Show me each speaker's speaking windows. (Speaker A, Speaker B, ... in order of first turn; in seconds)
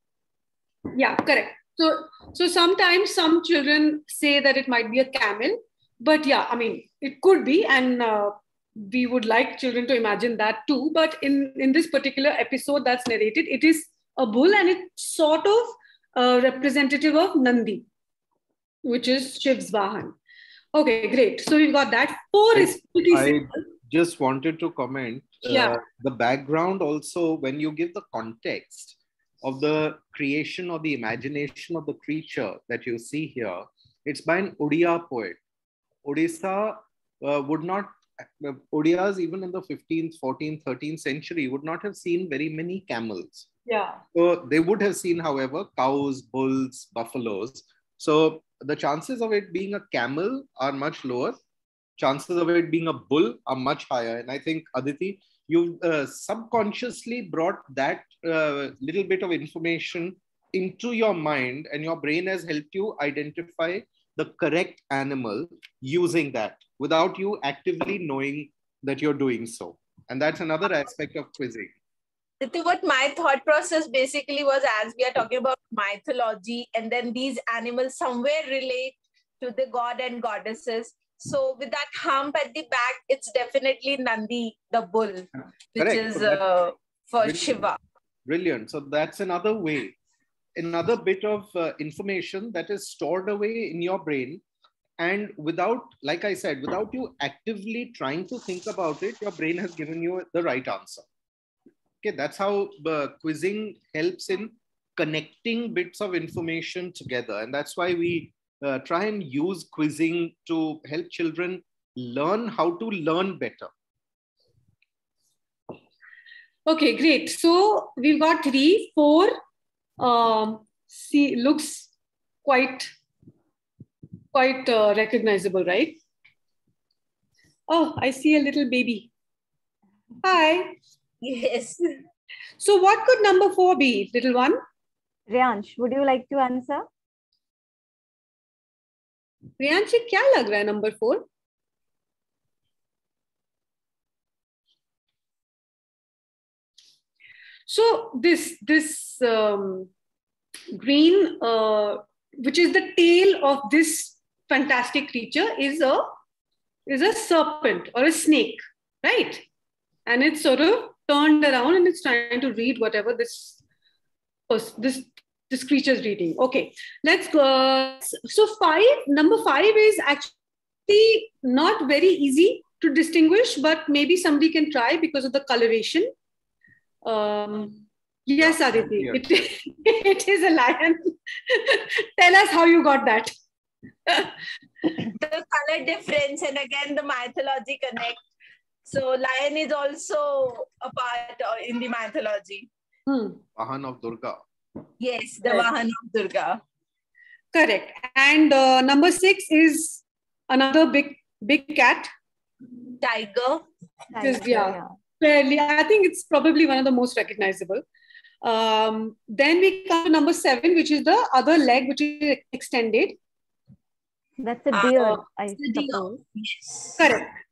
Speaker A: 0.9-17.9, 18.9-20.2, 20.7-23.5, 25.5-25.8, 43.7-44.0, 116.7-119.3, 120.0-121.9, 122.5-122.9, 124.3-126.0, 127.7-129.1, 130.2-130.8, 132.6-134.6, 139.6-141.3, 147.7-149.9, 150.7-156.1, 156.9-159.4, 160.1-163.6, 164.5-170.3, 170.9-176.1, 177.0-183.3, 184.1-184.4, 193.1-193.4, 197.5-202.1, 204.2-207.8, 208.4-213.2, 217.0-217.3
Speaker B: 22.6-35.4, 36.0-43.5, 44.1-51.4, 52.0-71.7, 85.8-86.4, 87.2-87.7, 88.3-90.0, 90.6-94.4, 95.0-101.1, 102.0-113.7, 178.4-179.2, 193.6-194.4
Speaker C: 72.4-87.8, 131.2-132.0, 185.0-188.2, 188.9-192.7, 195.0-196.6, 203.0-203.7, 214.7-217.1
Speaker D: 135.3-136.9, 204.1-204.9, 214.4-216.2